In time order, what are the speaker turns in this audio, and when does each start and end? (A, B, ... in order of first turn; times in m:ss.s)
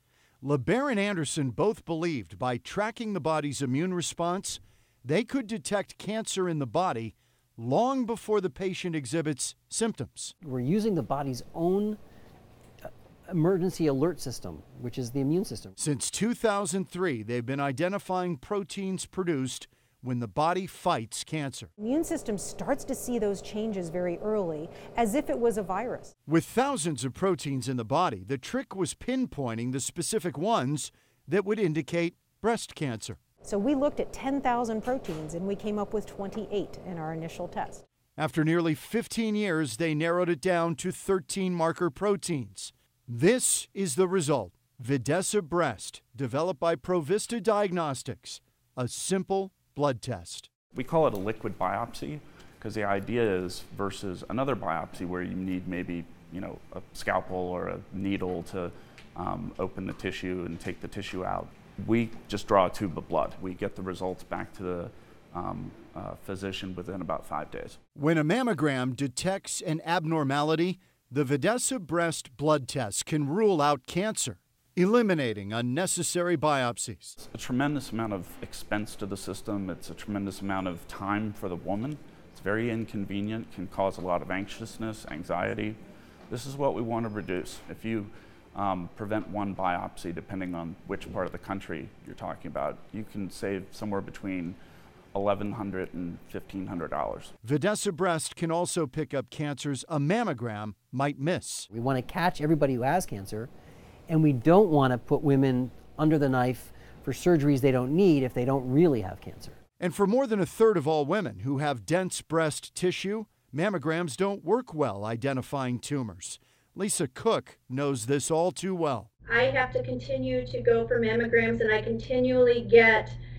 0:00.4-0:10.3 A
0:10.4-0:12.0 B
0:12.8-0:15.8 B
0:15.8-0:21.7 A
0:21.8-0:26.1 C
0:26.3-0:33.2 A
0:33.4-0:37.8 C
0:38.2-0:50.5 A
0:50.7-1:07.8 D
1:08.0-1:17.1 A
1:17.2-1:25.8 D
1:26.3-1:34.6 D
1:35.1-1:37.3 D
1:37.4-1:41.7 A
1:41.7-1:43.5 B
1:44.1-1:49.6 B
1:49.8-1:59.1 A
1:59.3-2:03.2 E